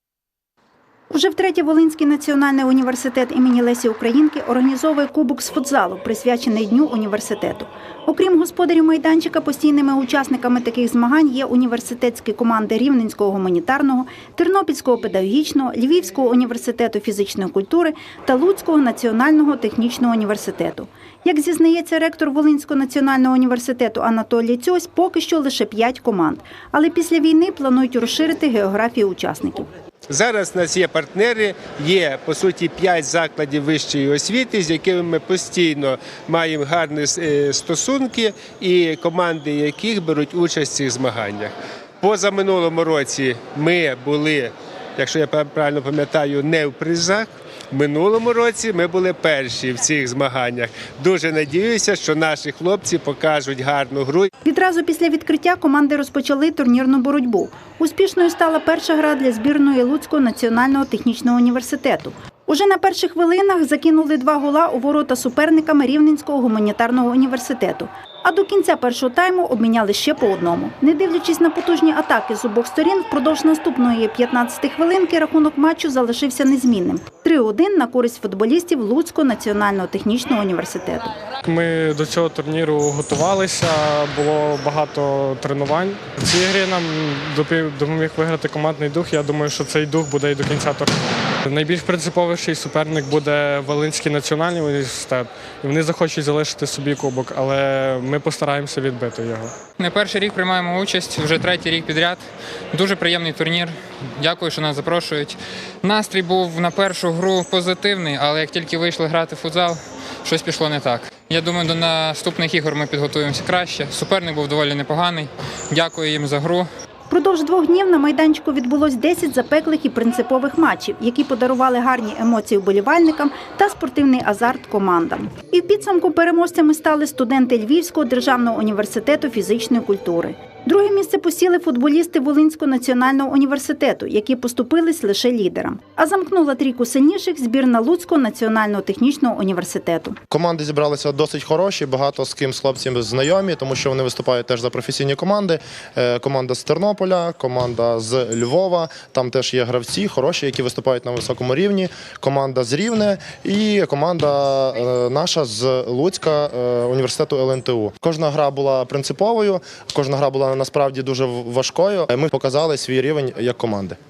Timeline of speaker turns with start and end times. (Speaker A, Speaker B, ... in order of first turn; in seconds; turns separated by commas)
Speaker A: 1.1-29.7, Speaker B: 30.1-54.3, Speaker A: 54.4-81.1, Speaker C: 81.4-99.5, Speaker D: 99.8-116.7, Speaker A: 117.1-140.2, Speaker E: 140.3-164.0